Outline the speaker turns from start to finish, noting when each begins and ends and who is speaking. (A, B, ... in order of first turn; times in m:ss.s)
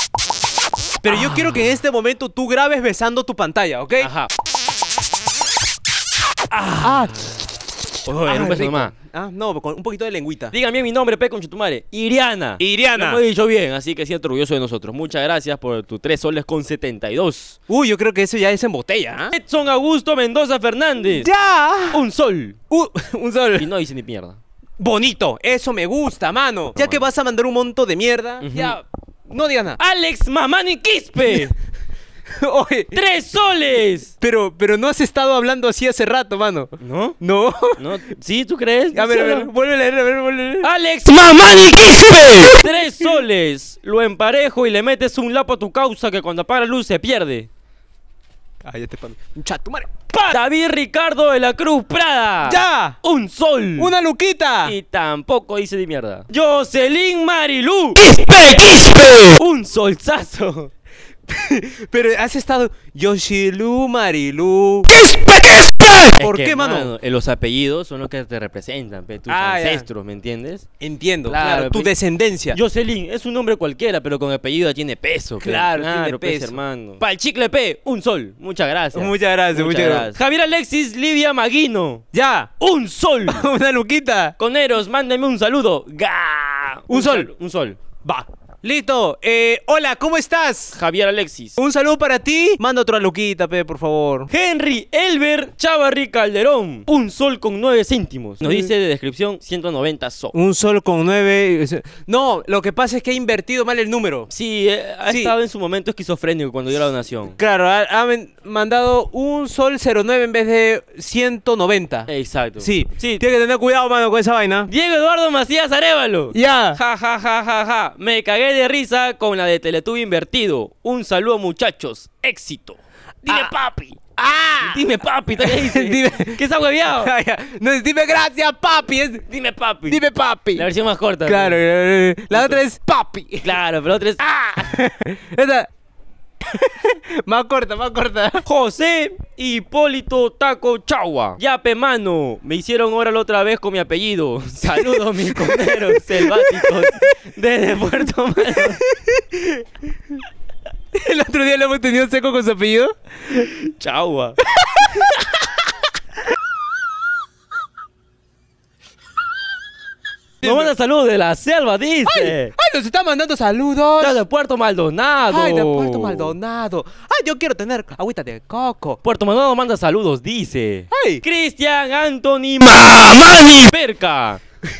0:01.0-0:04.1 A
0:01.1-0:01.6 B
0:04.0-0:04.3 B
0:06.5-0:07.3 B
0:06.8-0:07.3 A
0:08.0-0:08.9 B
0:08.2-0:10.5 A
0:10.5-0:17.6 B
0:12.6-0:13.2 A
0:17.7-0:19.3 A
0:19.3-0:21.3 B
0:21.2-0:22.0 A
0:21.9-0:22.6 B
0:22.7-0:23.7 A
0:23.6-0:24.4 B
0:24.8-0:29.8 A
0:26.8-0:27.0 B
0:28.4-0:28.8 B
0:29.8-0:31.5 B
0:32.4-0:33.0 A
0:32.9-0:34.1 B
0:34.2-0:37.8 A
0:36.8-0:37.2 B
0:37.7-0:39.5 B
0:38.9-0:40.7 A
0:40.6-0:47.5 B
0:48.6-0:50.4 A
0:50.2-0:53.9 B
0:52.4-0:53.0 A
0:53.8-0:54.7 A
0:54.6-1:00.7 B
0:58.4-0:58.7 A
1:01.3-1:05.0 A
1:05.0-1:10.7 B
1:06.1-1:06.9 A
1:09.3-1:09.8 A
1:10.8-1:12.6 A
1:11.3-1:11.9 B
1:12.5-1:22.0 B
1:15.4-1:16.6 A
1:18.9-1:20.1 A
1:22.1-1:22.5 A
1:22.6-1:23.4 B
1:23.3-1:24.3 A
1:24.4-1:27.8 B
1:26.9-1:27.3 A
1:28.0-1:30.8 A
1:30.7-1:31.6 B
1:31.6-1:34.3 A
1:34.3-1:40.3 B
1:38.4-1:38.7 A
1:40.3-1:44.3 A
1:44.3-1:47.4 B
1:45.1-1:45.3 A
1:47.4-1:54.7 A
1:52.1-1:53.2 B
1:54.7-2:04.0 B
1:56.3-1:56.8 A
2:03.2-2:03.5 A
2:04.2-2:04.8 A
2:04.6-2:07.1 B
2:05.4-2:06.4 A
2:06.9-2:09.2 A
2:09.3-2:10.0 B
2:09.9-2:10.6 A
2:10.5-2:11.6 B
2:11.2-2:13.5 A
2:12.3-2:12.6 B
2:13.4-2:14.6 B
2:14.4-2:15.7 A
2:16.4-2:18.4 A
2:18.4-2:28.8 B
2:24.7-2:26.7 A
2:28.9-2:29.4 A
2:30.9-2:32.9 A
2:33.4-2:34.4 B
2:40.4-2:40.7 A
2:40.4-2:42.5 B
2:42.0-2:44.2 A
2:44.0-2:46.3 B
2:45.3-2:49.0 A
2:49.0-2:54.4 B
2:50.9-2:51.2 A